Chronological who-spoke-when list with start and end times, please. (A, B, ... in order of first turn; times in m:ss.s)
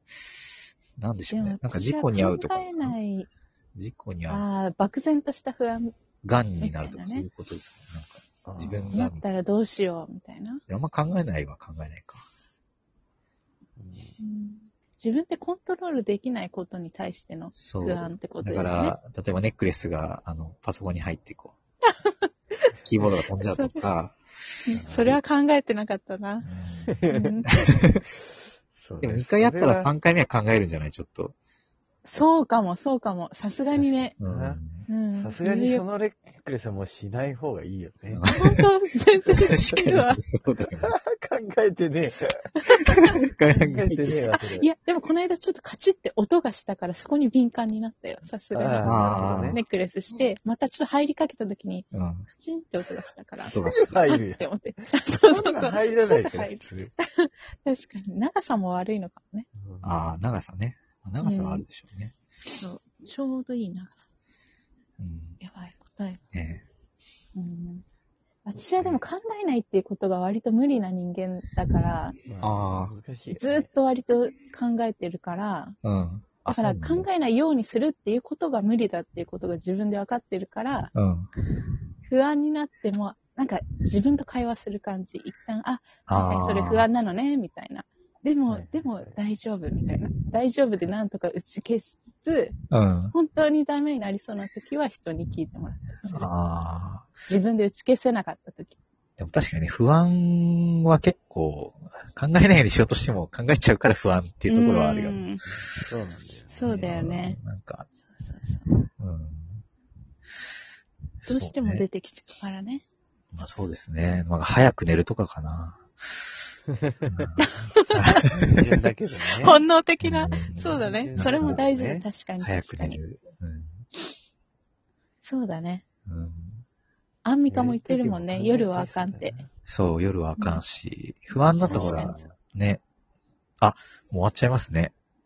0:01.0-0:03.0 A
0:01.3-0:03.3 B
0:03.7-0:04.4 A
0:04.3-0:05.9 B
0:06.2-0:09.2 A
0:06.6-0:07.3 B
0:08.4-0:09.0 C
0:08.9-0:10.6 B
0:10.7-0:12.2 A
0:13.8-0:14.1 C
0:14.2-0:19.0 B
0:17.6-0:21.5 A
0:22.0-0:22.7 B
0:22.8-0:25.2 A
0:23.4-0:23.8 B
0:24.6-0:26.5 B
0:24.7-0:25.1 C
0:26.4-0:26.9 A
0:26.8-0:27.6 C
0:27.1-0:27.5 B
0:27.5-0:28.0 A
0:28.8-0:29.9 C
0:29.0-0:31.3 A
0:32.0-0:34.2 B
0:34.2-0:34.8 A
0:34.2-0:34.6 C
0:34.8-0:35.8 B
0:35.2-0:38.3 C
0:38.1-0:38.6 A
0:38.3-0:40.2 B
0:39.3-0:40.9 A
0:40.8-0:42.5 C
0:42.7-0:43.2 B
0:42.8-0:44.2 A
0:43.5-0:44.7 C
0:44.4-0:59.5 B
0:48.5-0:49.6 C
0:48.8-0:49.6 A
0:51.9-0:52.3 A
0:53.4-0:53.9 A
0:53.8-0:54.4 C
0:55.2-0:56.9 C
0:59.6-0:59.9 C
0:59.8-1:02.1 A
1:01.2-1:01.6 B
1:02.6-1:04.0 B
1:05.0-1:05.4 A
1:05.4-1:06.2 B
1:06.3-1:06.6 A
1:07.3-1:07.8 B
1:08.4-1:12.2 B
1:12.2-1:13.7 C
1:12.4-1:12.9 A
1:13.3-1:15.8 B
1:15.8-1:17.0 A
1:16.5-1:20.9 B
1:20.9-1:21.3 A
1:22.0-1:32.5 B
1:26.1-1:26.8 A
1:28.5-1:29.1 C
1:32.7-1:33.1 A
1:33.1-1:36.3 B
1:36.1-1:37.1 A
1:37.2-1:38.8 B
1:39.2-1:45.2 A
1:44.5-1:45.4 B
1:45.5-1:46.7 C
1:46.5-1:47.4 B
1:46.7-1:47.9 A
1:48.2-1:48.7 B
1:49.0-1:49.6 A
1:51.2-1:52.8 B
1:51.3-1:51.8 A
1:53.3-1:55.8 A
1:56.7-1:57.3 C
1:57.0-1:58.6 A
1:57.4-1:58.3 B
1:58.4-1:59.6 C
1:59.4-2:03.0 B
2:00.0-2:01.6 A
2:00.8-2:02.0 C
2:02.4-2:03.8 A
2:05.2-2:05.8 B
2:06.1-2:06.6 A
2:07.2-2:09.4 B
2:07.5-2:09.4 C
2:09.6-2:12.8 A
2:10.4-2:10.6 B
2:11.6-2:12.2 B
2:11.6-2:12.3 C
2:13.6-2:14.9 A